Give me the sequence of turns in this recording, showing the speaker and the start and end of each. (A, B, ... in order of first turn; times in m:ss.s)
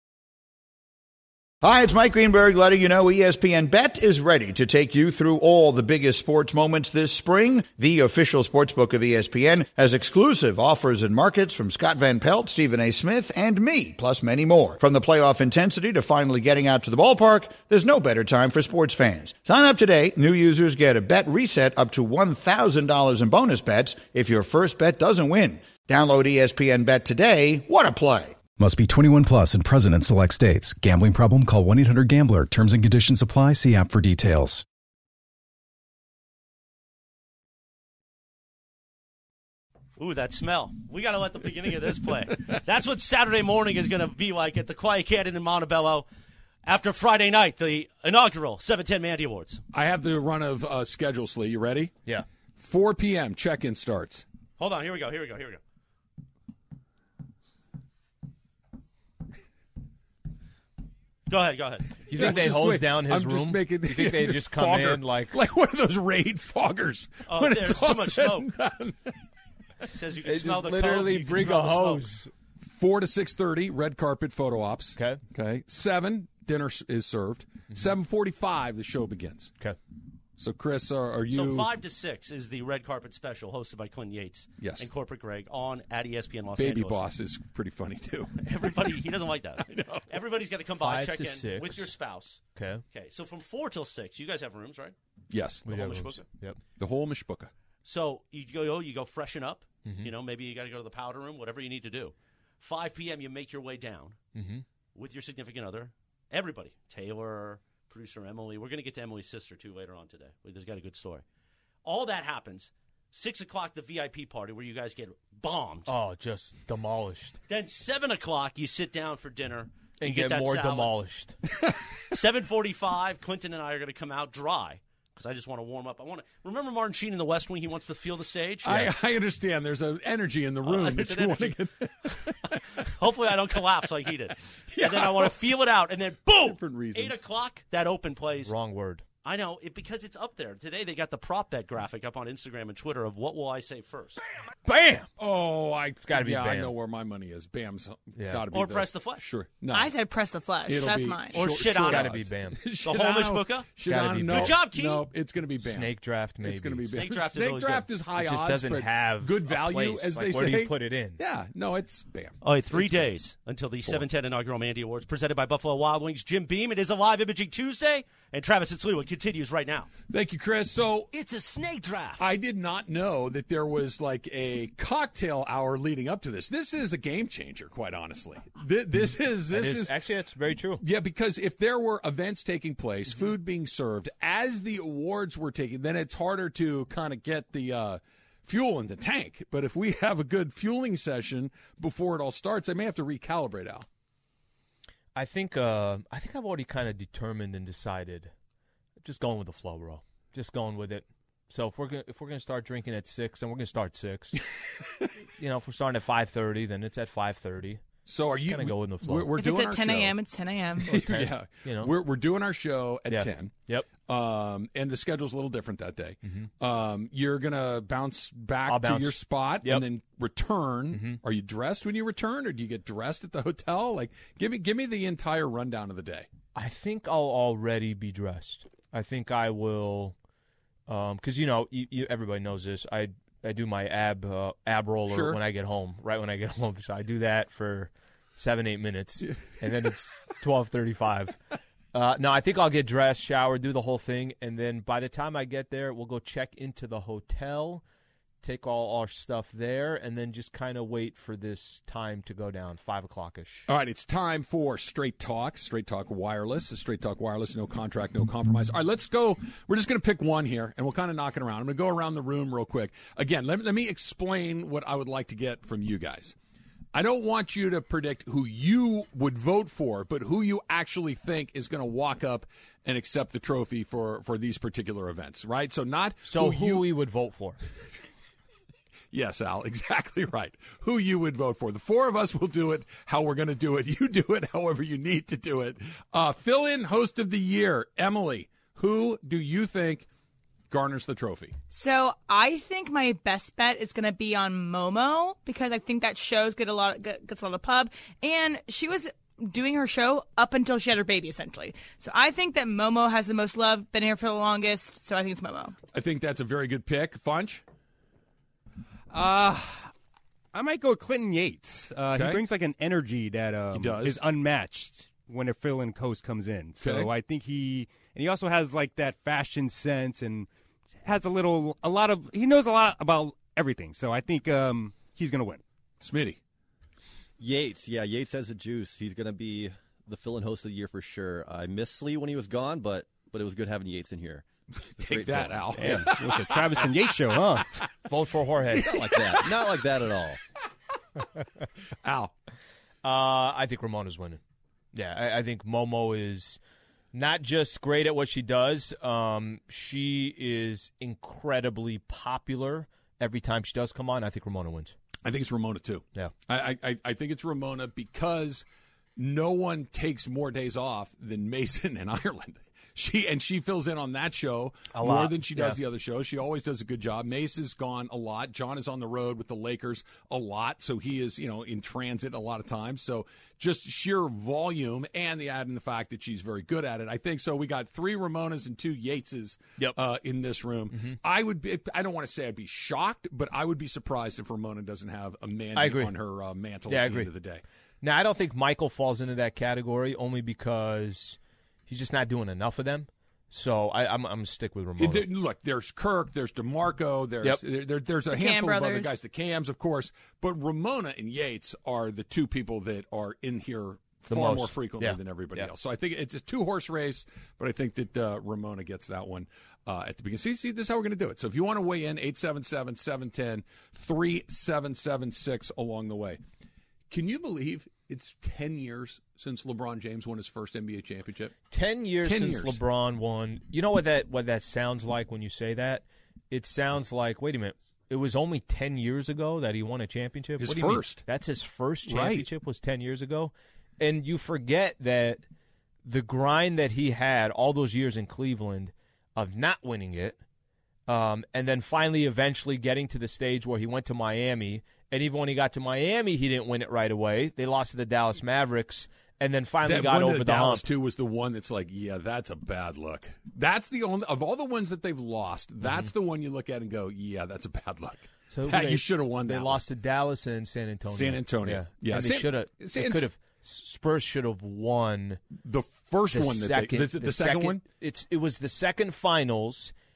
0:01.6-0:28.4 A
0:28.6-0:34.6 B
0:40.0-0:46.1 C
0:46.6-0:49.6 C
0:49.7-0:51.9 D
0:52.6-0:54.2 D
0:54.6-0:55.6 C
1:01.3-1:02.0 C
1:02.1-1:05.3 E
1:02.1-1:09.1 D
1:07.3-1:08.5 C
1:09.9-1:12.1 C
1:10.2-1:12.3 E
1:12.6-1:19.5 D
1:15.0-1:15.2 E
1:20.4-1:21.7 D
1:21.3-1:27.1 C
1:24.6-1:24.8 D
1:26.6-1:28.9 D
1:28.4-1:34.9 C
1:29.6-1:30.0 D
1:30.8-1:31.9 E
1:32.5-1:32.8 E
1:35.3-1:35.7 D
1:35.7-1:36.2 C
1:35.7-1:36.6 E
1:36.8-1:37.5 D
1:37.8-1:44.2 C
1:39.8-1:40.1 E
1:44.3-1:44.6 E
1:44.9-1:51.2 C
1:51.8-1:55.9 C
1:55.9-1:57.4 E
1:57.5-2:00.9 C
2:00.0-2:01.4 E
2:02.1-2:08.9 C
2:08.6-2:12.8 D
2:10.6-2:11.6 C
2:12.1-2:18.5 C
2:14.7-2:15.4 D
2:16.4-2:17.2 D
2:18.4-2:19.0 E
2:19.2-2:24.2 C
2:24.7-2:25.1 E
2:25.2-2:29.9 D
2:26.0-2:26.7 E
2:28.1-2:28.4 E
2:28.5-2:29.2 C
2:29.7-2:31.4 F
2:30.6-2:43.1 D
2:31.3-2:32.2 C
2:31.6-2:32.6 E
2:32.8-2:33.7 C
2:33.8-2:34.6 E
2:34.3-2:35.1 C
2:35.6-2:37.0 E
2:36.9-2:37.9 C
2:38.2-2:41.2 E
2:42.4-2:49.9 C
2:50.1-2:51.1 D
2:51.1-2:52.3 C
2:52.2-2:59.9 D
2:59.5-3:00.8 E
3:00.8-3:13.8 D
3:15.1-3:18.3 E
3:19.0-3:24.4 E
3:25.4-3:27.8 E
3:28.0-3:30.2 D
3:28.5-3:29.3 E
3:29.3-3:30.9 F
3:30.8-3:46.3 D
3:30.9-3:31.9 E
3:33.1-3:33.9 E
3:38.6-3:39.8 E
3:40.9-3:41.2 E
3:46.5-3:50.1 E
3:50.9-4:01.4 E
3:55.1-3:55.4 D
4:01.9-4:07.8 E
4:08.4-4:13.7 E
4:13.7-4:26.3 D
4:26.9-4:36.9 D
4:36.2-4:37.6 E
4:39.1-4:50.0 D
4:50.7-4:51.5 D
4:51.7-5:05.7 F
5:05.9-5:07.6 D
5:09.1-5:09.9 G
5:10.5-5:20.5 G
5:12.1-5:12.4 D
5:13.7-5:14.2 D
5:16.8-5:17.1 D
5:21.0-5:25.6 G
5:26.0-5:26.4 D
5:27.4-5:34.5 H
5:34.9-5:36.9 D
5:35.0-5:35.7 H
5:35.7-5:37.7 G
5:38.0-5:38.9 E
5:38.7-5:39.7 D
5:38.8-5:40.4 H
5:42.0-5:42.3 D
5:43.0-5:44.4 E
5:44.9-5:46.6 E
5:47.1-5:54.9 E
5:55.2-5:58.6 D
5:59.2-6:27.6 D
6:04.9-6:05.8 E
6:25.8-6:26.1 E
6:26.9-6:27.3 E
6:28.0-6:35.2 E
6:35.0-6:56.4 D
6:38.3-6:39.1 F
6:44.3-6:45.7 E
6:57.1-7:01.6 D
7:01.7-7:15.4 E
7:02.2-7:02.8 D
7:10.6-7:11.2 D
7:12.1-7:12.5 D
7:16.0-7:20.4 E
7:21.1-7:30.8 E
7:29.8-7:39.8 D
7:35.8-7:36.1 E
7:38.5-7:45.4 E
7:41.1-7:43.3 D
7:45.5-7:47.8 D
7:46.3-7:49.9 E